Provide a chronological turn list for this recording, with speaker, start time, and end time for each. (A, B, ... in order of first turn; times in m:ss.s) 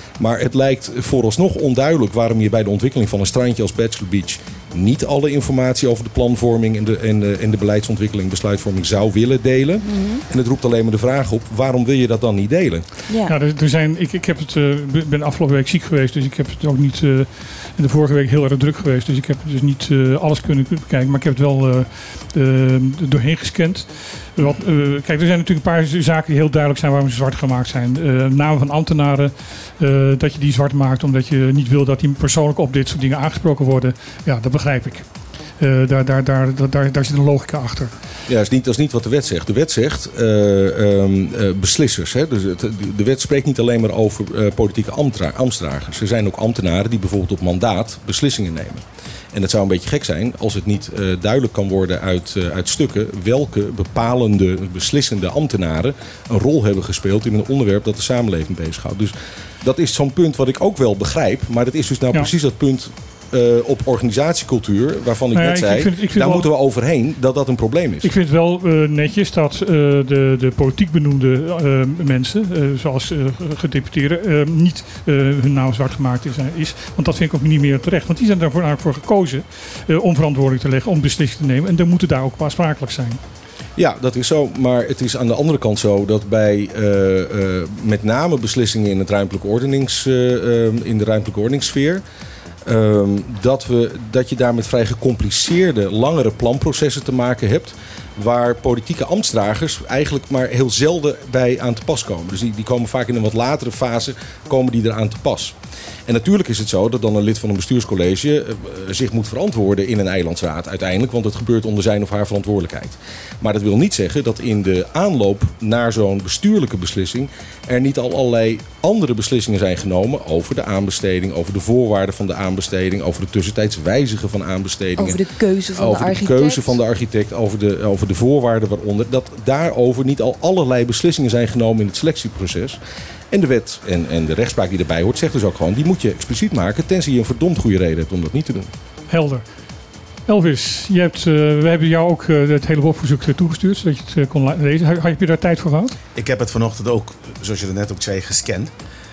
0:00.2-0:12.8 A
0:09.8-0:10.2 B
0:13.1-0:13.4 B
0:13.3-0:37.9 C
0:38.3-1:08.1 A
1:05.3-1:06.5 C
1:08.0-1:23.2 C
1:23.8-1:32.0 A
1:32.6-1:45.6 A
1:46.1-2:12.8 A
2:05.0-2:06.8 B
2:13.3-2:18.7 A
2:19.1-2:19.5 C
2:20.3-2:26.0 C
2:26.2-2:28.7 D